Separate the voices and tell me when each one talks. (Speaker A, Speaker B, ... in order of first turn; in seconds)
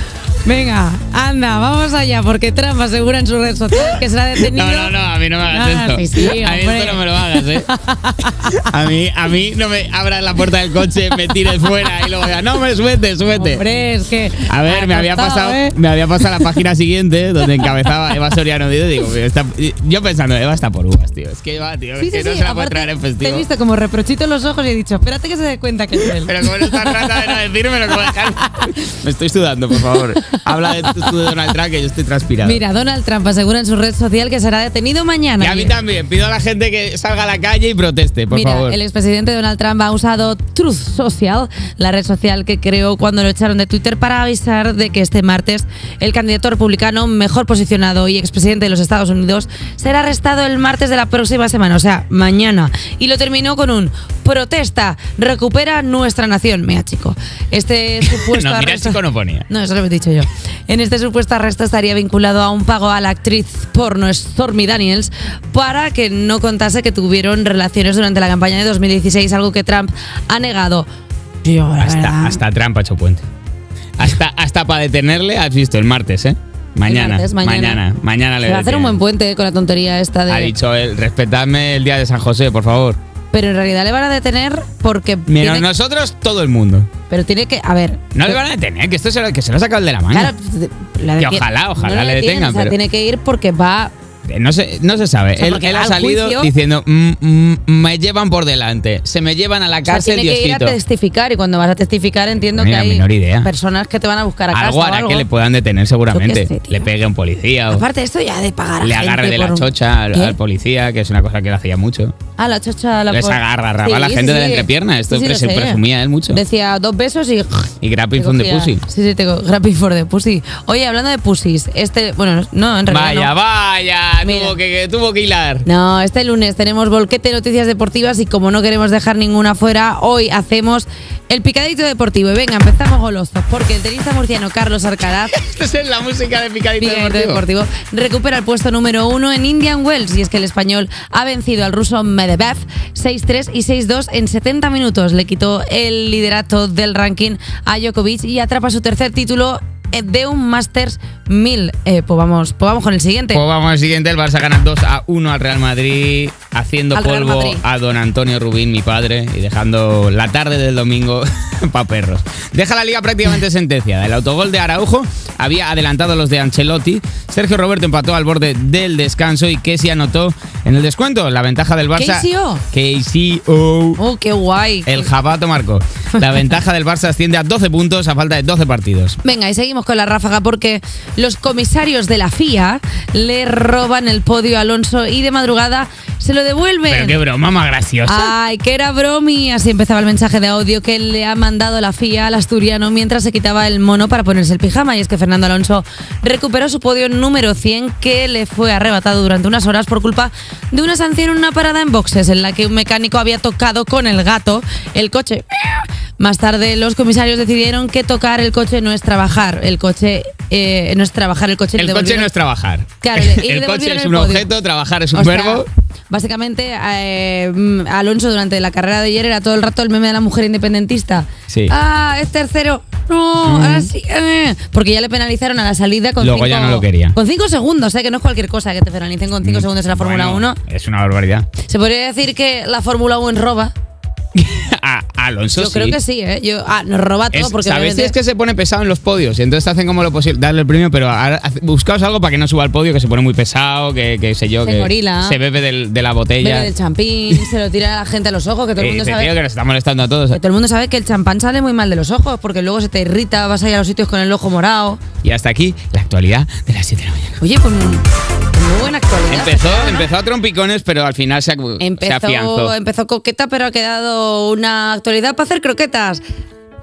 Speaker A: 0.5-8.7, 11.5-12.1, 13.3-16.6, 22.0-28.8, 29.7-31.5, 32.4-35.8, 38.3-70.9, 71.4-72.4, 76.9-77.8, 78.4-80.5, 83.3-85.7, 87.1-88.4, 90.1-93.9, 95.4-96.5, 99.9-105.2, 106.1-106.9, 107.7-110.4, 112.4-123.3, 124.2-124.5, 125.7-135.3, 136.8-153.4, 156.9-157.6, 171.9-172.6, 174.0-175.1, 179.2-187.2, 188.0-212.3, 213.0-214.5, 215.1-230.6, 231.6-233.7, 235.6-238.1, 244.6-245.4, 246.4-249.3, 250.3-255.0, 257.4-260.1, 261.8-266.2
Speaker B: 4.4-7.7, 8.4-13.6, 14.4-23.4, 26.2-32.6, 35.4-38.8, 58.0-59.5, 71.8-73.2, 74.0-79.0, 80.3-83.0, 85.3-86.9, 88.1-90.3, 91.2-92.8, 94.2-100.8, 102.5-103.5, 104.5-107.8, 108.8-112.2, 113.1-116.4, 117.8-118.8, 122.9-125.7, 135.2-137.4, 153.3-174.0, 174.8-179.2, 186.9-188.3, 211.8-215.7, 223.5-223.9, 226.2-227.2, 229.4-231.5, 234.3-236.0, 237.3-246.7, 248.8-250.4, 255.2-257.4, 259.3-262.7